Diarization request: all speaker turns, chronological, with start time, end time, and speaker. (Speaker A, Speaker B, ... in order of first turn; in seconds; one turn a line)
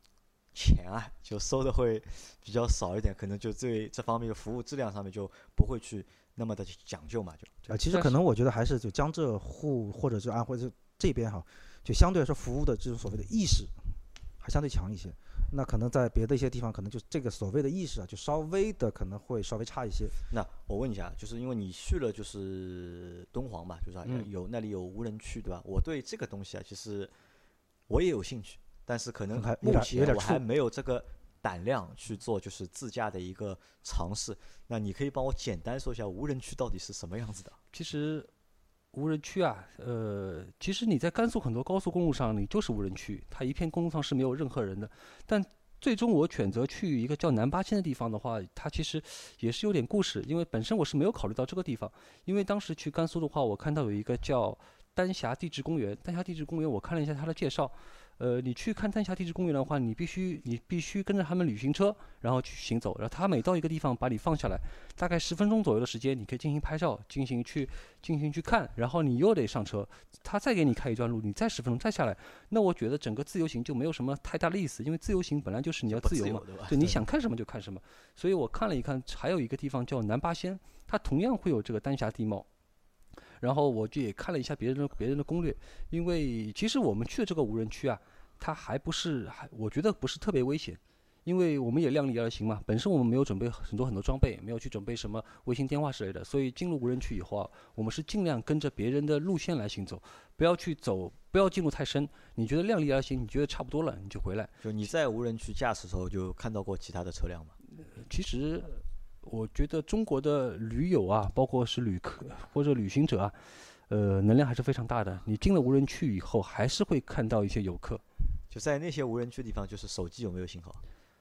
Speaker A: 0.5-7.5
Speaker B: 7.7-8.2
Speaker C: 7.7-13.7
Speaker C: 14.4-20.2
Speaker A: 20.3-27.1
Speaker A: 27.9-37.6
Speaker C: 29.3-30.4
Speaker B: 37.7-38.3
Speaker B: 38.9-82.5
Speaker A: 75.9-76.8
Speaker B: 83.4-104.5
Speaker A: 104.6-107.6
Speaker B: 107.8-118.0
Speaker A: 118.5-120.8